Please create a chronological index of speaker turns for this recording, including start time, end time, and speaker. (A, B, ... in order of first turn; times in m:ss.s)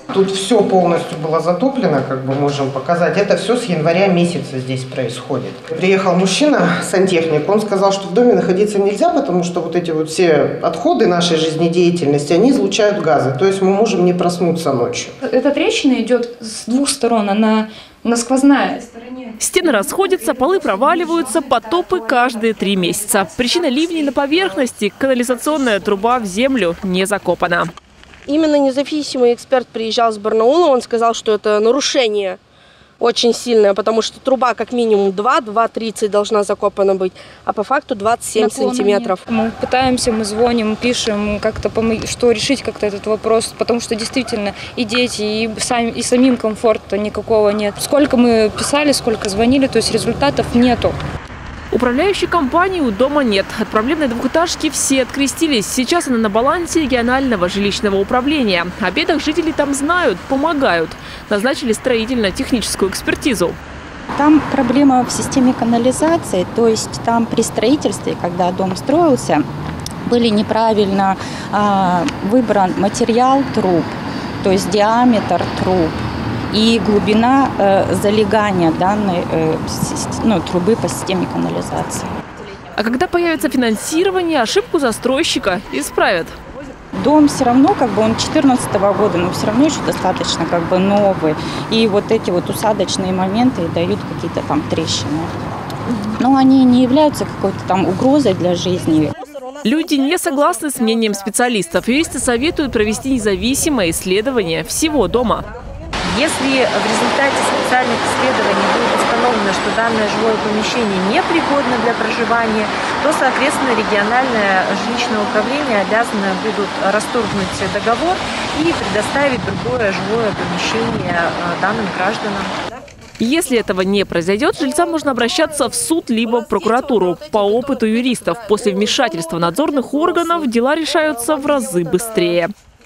0:00.1-0:15.1 A
0:15.2-0:21.8 B
0:19.4-0:27.7 C
0:28.3-0:32.4 D
0:33.0-0:39.2 D
0:38.4-0:39.1 E
0:39.3-0:51.0 B
0:51.7-1:03.6 C
1:04.2-1:09.4 E
1:10.0-1:16.0 E
1:16.5-1:22.1 E
1:22.8-1:26.4 C
1:27.0-1:35.3 E
1:36.2-1:39.2 E
1:39.6-1:45.5 C
1:46.0-2:02.8 F
2:03.2-2:12.5 C
2:06.2-2:09.6 D
2:10.2-2:10.5 D
2:11.1-2:12.3 D